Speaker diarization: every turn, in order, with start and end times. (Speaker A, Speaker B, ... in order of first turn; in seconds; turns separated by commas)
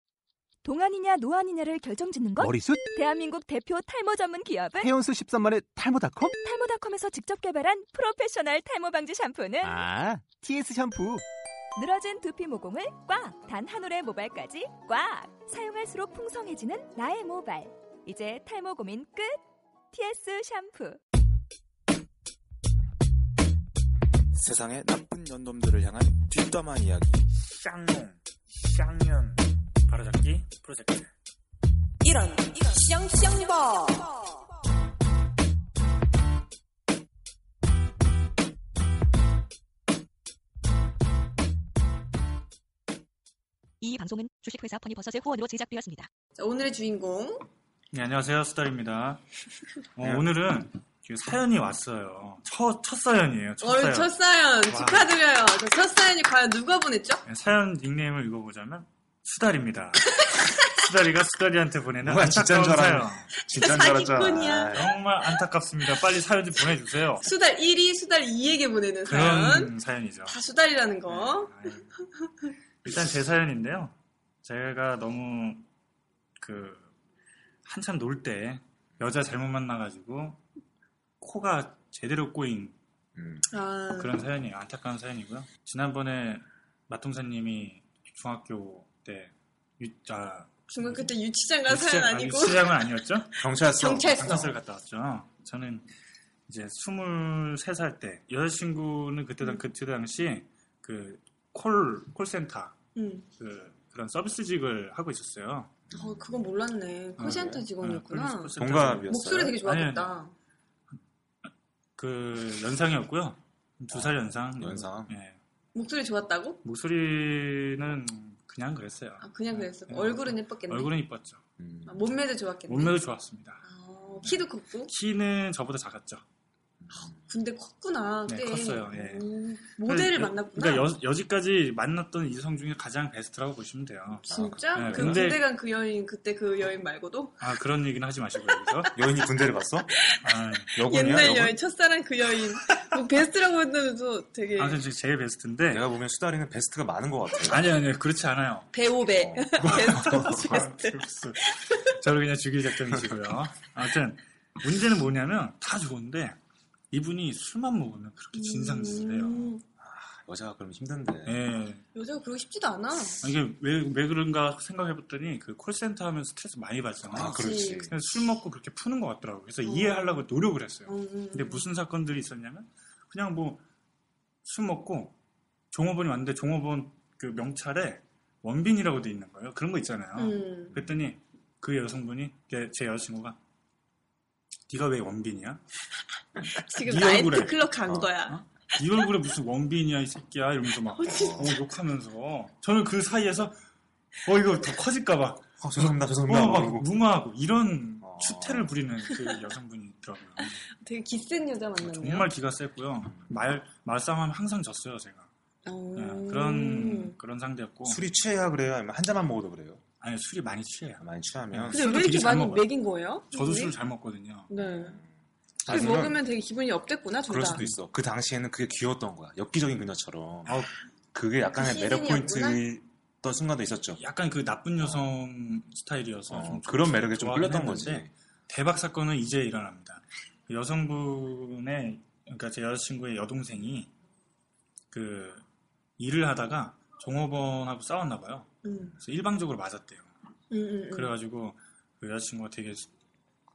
Speaker A: 0.6-4.9, Speaker B: 2.4-2.8, Speaker B: 4.8-6.3, Speaker A: 6.2-9.8, Speaker B: 9.6-11.2, Speaker A: 11.8-19.4, Speaker A: 19.9-21.0, Speaker C: 24.4-31.1, Speaker D: 32.0-33.9, Speaker E: 43.8-46.1, Speaker D: 46.4-47.5, Speaker C: 47.9-49.2, Speaker C: 50.0-55.1, Speaker F: 50.0-50.3, Speaker D: 53.6-57.2, Speaker C: 57.3-63.3, Speaker F: 62.0-65.0, Speaker D: 63.5-64.9, Speaker C: 64.7-67.3, Speaker D: 67.2-69.7, Speaker C: 69.0-70.4, Speaker D: 70.3-72.5, Speaker C: 71.1-71.9, Speaker C: 72.8-75.7, Speaker C: 76.4-76.9, Speaker C: 77.7-80.4, Speaker C: 81.2-82.8, Speaker F: 83.2-83.5, Speaker D: 83.5-84.2, Speaker C: 84.0-91.1, Speaker D: 90.7-92.8, Speaker C: 91.7-93.3, Speaker F: 93.4-94.6, Speaker D: 93.8-94.5, Speaker C: 94.0-95.9, Speaker C: 96.5-102.8, Speaker D: 103.0-103.3, Speaker C: 103.4-105.7, Speaker F: 105.9-106.4, Speaker D: 105.9-108.6, Speaker C: 107.2-110.2, Speaker F: 107.2-107.7, Speaker F: 108.6-109.6, Speaker D: 109.1-110.3, Speaker C: 112.0-115.4, Speaker F: 113.9-115.2, Speaker D: 115.8-116.6, Speaker C: 116.6-121.4, Speaker D: 119.2-120.9, Speaker F: 121.6-122.0, Speaker D: 121.9-123.0, Speaker C: 122.7-123.7, Speaker D: 123.7-124.9, Speaker C: 124.2-126.2, Speaker F: 126.8-127.2, Speaker D: 127.0-130.9, Speaker C: 128.3-135.5, Speaker F: 134.3-135.3, Speaker D: 134.3-137.5, Speaker C: 137.4-138.9, Speaker D: 138.5-138.9, Speaker F: 138.9-139.9, Speaker C: 140.1-141.6, Speaker D: 140.8-144.8, Speaker C: 144.6-145.9, Speaker F: 145.7-147.7, Speaker C: 147.4-148.8, Speaker D: 148.7-151.8, Speaker F: 149.1-150.6, Speaker C: 149.6-156.4, Speaker C: 156.9-159.6, Speaker D: 158.3-159.6, Speaker F: 159.8-161.4, Speaker C: 161.2-161.8, Speaker D: 161.9-163.3, Speaker C: 163.2-173.6, Speaker F: 167.0-168.0, Speaker D: 167.2-167.9, Speaker D: 169.6-170.2, Speaker D: 170.9-171.7, Speaker C: 174.4-175.2, Speaker C: 175.7-183.4, Speaker D: 180.2-180.8, Speaker F: 180.8-181.0, Speaker C: 184.7-185.6, Speaker D: 186.4-188.4, Speaker C: 186.8-187.7, Speaker C: 188.2-193.6, Speaker D: 190.9-191.6, Speaker F: 191.1-191.6, Speaker C: 194.2-200.6, Speaker F: 195.6-196.9, Speaker F: 198.0-198.7, Speaker D: 200.8-202.3, Speaker C: 201.8-205.3, Speaker F: 203.1-203.4, Speaker D: 205.7-207.2, Speaker C: 205.9-208.1, Speaker F: 207.9-209.8, Speaker C: 210.0-212.7, Speaker F: 211.0-211.8, Speaker D: 211.7-213.8, Speaker C: 213.3-214.5, Speaker D: 214.5-215.0, Speaker F: 215.6-216.2, Speaker C: 215.7-216.1, Speaker D: 215.7-217.7, Speaker F: 217.3-224.0, Speaker C: 220.5-220.7, Speaker D: 221.6-222.7, Speaker C: 224.0-233.9, Speaker F: 224.8-225.1, Speaker F: 226.3-228.1, Speaker C: 234.9-235.4, Speaker C: 236.0-240.1, Speaker D: 238.6-239.0, Speaker D: 240.5-241.1, Speaker C: 240.9-242.9